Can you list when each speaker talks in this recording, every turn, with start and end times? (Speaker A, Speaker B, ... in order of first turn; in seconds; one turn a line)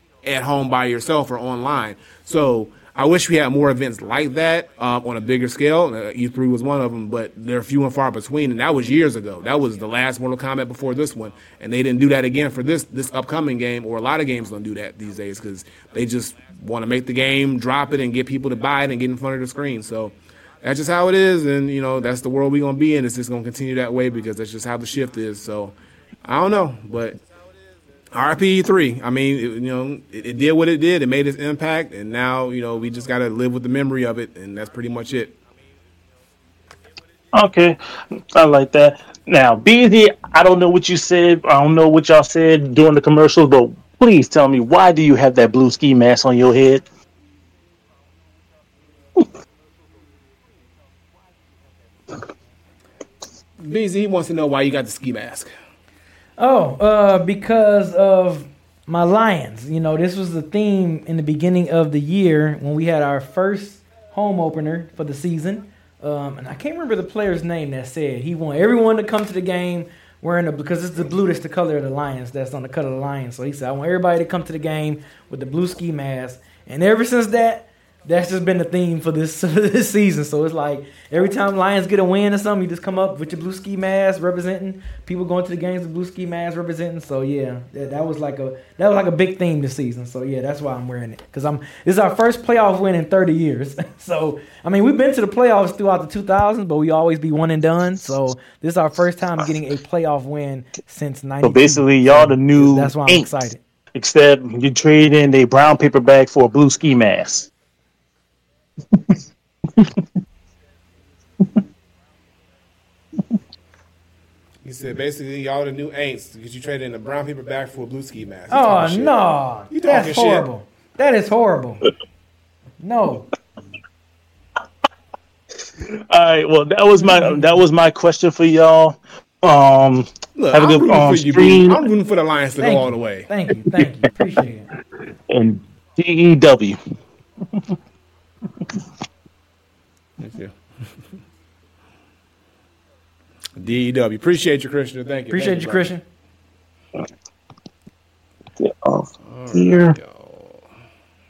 Speaker A: 0.2-25.7
Speaker A: 26.2-27.2
Speaker A: 28.1-35.4
Speaker B: 37.3-37.8
Speaker B: 38.3-46.9
Speaker A: 53.6-55.5
Speaker C: 56.4-103.6
Speaker B: 101.4-103.3
Speaker B: 104.0-107.5
Speaker B: 109.8-110.0
Speaker A: 114.6-119.2
Speaker C: 118.5-121.9
Speaker A: 119.7-120.5
Speaker C: 122.8-123.3
Speaker B: 125.8-131.9
Speaker C: 127.1-127.6
Speaker A: 130.4-133.3
Speaker C: 132.6-134.7
Speaker B: 133.8-134.1
Speaker B: 135.3-136.8
Speaker A: 140.2-140.5
Speaker A: 143.6-145.9
Speaker C: 145.3-146.0
Speaker B: 148.6-150.0
Speaker A: 149.2-150.6